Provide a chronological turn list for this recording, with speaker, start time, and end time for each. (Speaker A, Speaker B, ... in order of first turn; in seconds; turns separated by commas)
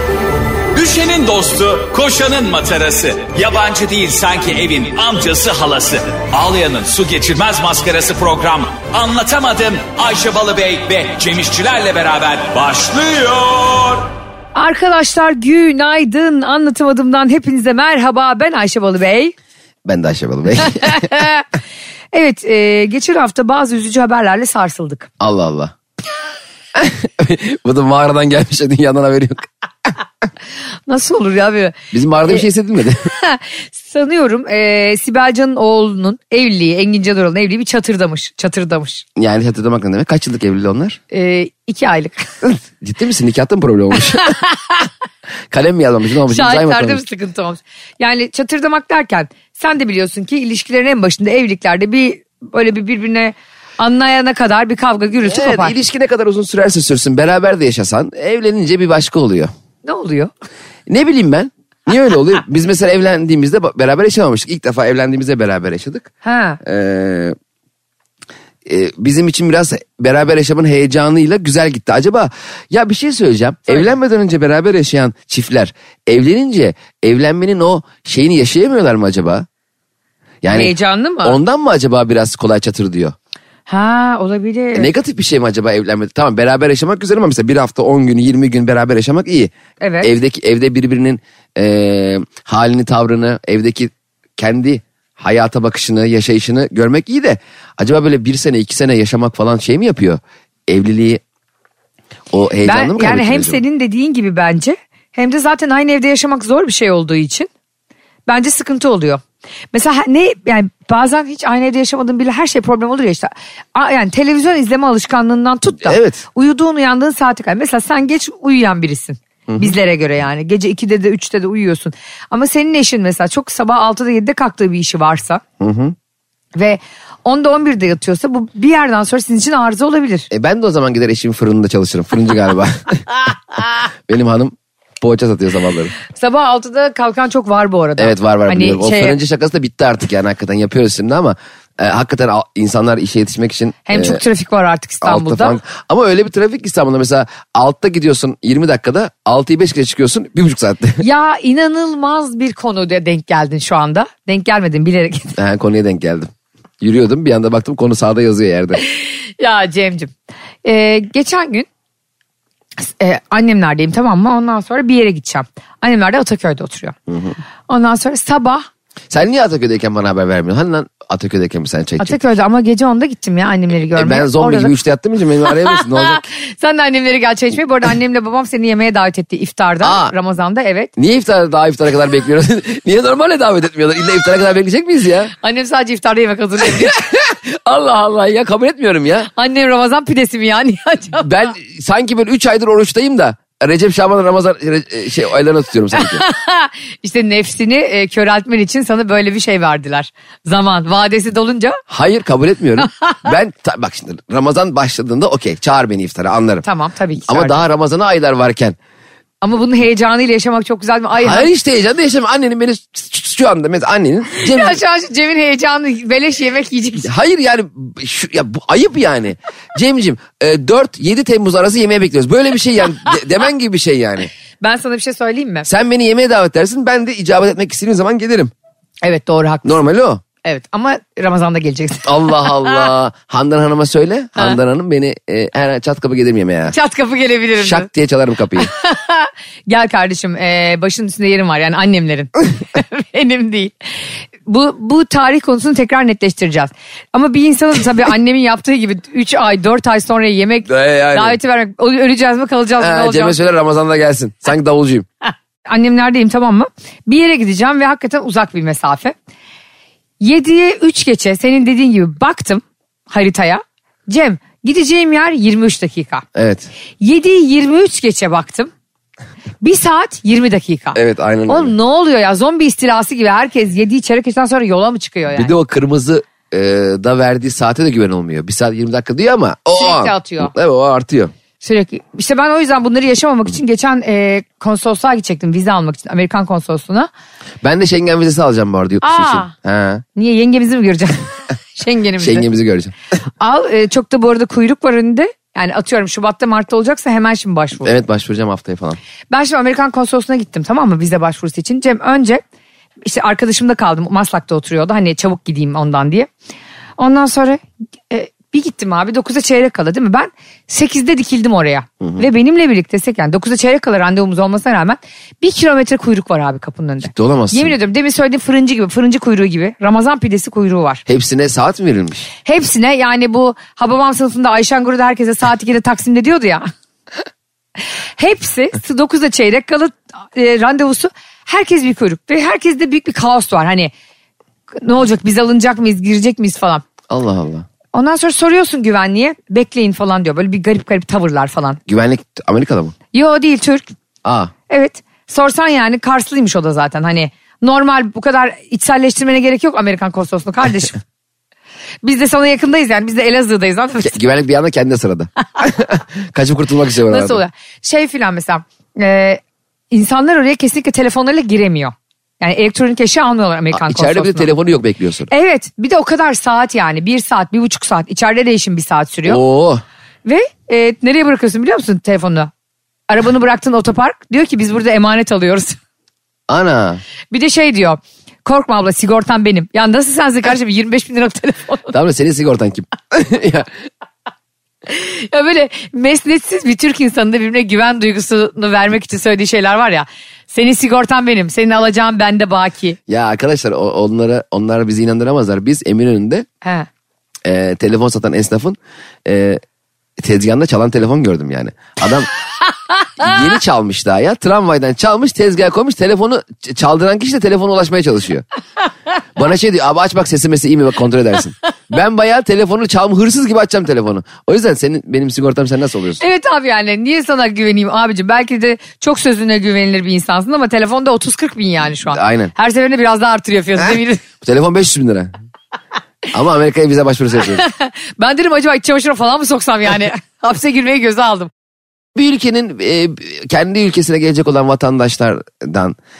Speaker A: 0.7-14.1, Speaker B: 14.5-19.3, Speaker C: 19.8-21.1, Speaker B: 20.7-21.4, Speaker B: 22.1-25.1, Speaker C: 25.2-25.7, Speaker C: 26.7-29.5, Speaker B: 30.9-31.7, Speaker C: 31.9-33.1, Speaker B: 33.1-39.0, Speaker C: 39.1-41.0, Speaker B: 41.1-42.3, Speaker C: 42.4-44.4, Speaker B: 44.3-44.8, Speaker C: 45.5-47.0, Speaker B: 46.3-55.7, Speaker C: 55.2-59.5, Speaker B: 59.8-60.3, Speaker C: 60.9-66.1, Speaker B: 66.2-66.6, Speaker C: 66.6-67.3, Speaker C: 68.6-79.5, Speaker C: 80.4-83.1, Speaker B: 80.5-81.4, Speaker B: 83.7-84.9, Speaker C: 84.7-101.2, Speaker B: 89.8-90.1, Speaker C: 102.3-103.6, Speaker B: 102.6-107.5, Speaker B: 108.3-109.2, Speaker B: 109.7-125.4, Speaker C: 115.8-116.2, Speaker C: 119.5-119.8, Speaker C: 125.6-125.9, Speaker B: 126.5-130.3, Speaker C: 130.3-133.1, Speaker C: 134.1-135.9, Speaker B: 136.1-139.2, Speaker C: 138.0-144.2, Speaker B: 143.9-145.6, Speaker C: 145.0-151.0, Speaker B: 151.0-155.3, Speaker C: 155.3-156.3, Speaker C: 156.8-158.8, Speaker B: 158.8-160.1, Speaker B: 160.6-161.7, Speaker B: 162.8-166.9, Speaker C: 167.1-167.4, Speaker B: 167.7-168.7, Speaker C: 169.1-172.2, Speaker B: 172.0-174.7, Speaker C: 173.9-176.2, Speaker B: 175.8-180.9, Speaker C: 179.8-180.1, Speaker C: 181.0-185.3, Speaker B: 185.4-187.0, Speaker C: 186.7-189.3, Speaker B: 189.3-191.3, Speaker C: 191.2-196.2, Speaker B: 196.0-201.8, Speaker C: 201.9-206.7, Speaker B: 206.6-207.6, Speaker C: 207.2-208.8, Speaker B: 209.4-211.5, Speaker C: 211.1-214.8, Speaker B: 214.4-217.1, Speaker C: 217.0-224.3, Speaker B: 224.6-225.7, Speaker C: 225.7-228.5, Speaker B: 229.0-229.8, Speaker C: 229.6-230.2, Speaker B: 230.4-232.8, Speaker C: 232.0-236.8, Speaker B: 236.7-237.9, Speaker C: 237.6-238.7, Speaker B: 238.6-243.9, Speaker B: 244.4-253.4, Speaker C: 250.7-251.4, Speaker C: 252.8-255.1, Speaker B: 255.7-259.1, Speaker B: 260.2-266.2, Speaker C: 266.3-266.7, Speaker B: 267.0-268.7, Speaker B: 269.6-275.5, Speaker C: 270.9-271.7, Speaker C: 275.3-281.3, Speaker B: 279.8-280.5, Speaker B: 281.6-287.1, Speaker C: 287.6-290.0, Speaker B: 289.0-289.5, Speaker B: 290.1-292.4, Speaker C: 292.2-292.9, Speaker B: 293.4-297.9, Speaker C: 297.8-299.0, Speaker B: 299.3-302.4, Speaker B: 303.0-306.3, Speaker B: 307.0-321.0, Speaker C: 317.0-317.8, Speaker C: 321.1-322.3, Speaker B: 322.4-326.7, Speaker B: 328.2-333.9, Speaker B: 334.8-336.8, Speaker C: 337.1-337.7, Speaker B: 337.9-341.8, Speaker C: 341.9-342.9, Speaker B: 343.1-343.9, Speaker C: 344.2-344.5, Speaker B: 344.7-351.0, Speaker B: 352.0-354.1, Speaker C: 354.0-357.4, Speaker B: 357.1-364.5, Speaker C: 363.7-365.3, Speaker B: 365.3-369.4, Speaker C: 369.2-369.8, Speaker B: 370.2-372.5, Speaker B: 373.1-375.8, Speaker C: 376.5-377.0, Speaker B: 377.3-381.9, Speaker C: 381.9-383.7, Speaker B: 384.9-393.0, Speaker C: 393.1-396.4, Speaker B: 396.6-396.9, Speaker C: 397.4-399.6, Speaker C: 400.2-402.3, Speaker C: 403.2-408.4, Speaker C: 409.4-416.2, Speaker B: 416.2-424.2, Speaker C: 422.1-422.5, Speaker C: 423.8-425.3, Speaker C: 426.3-427.6, Speaker B: 427.5-431.5, Speaker C: 432.1-436.0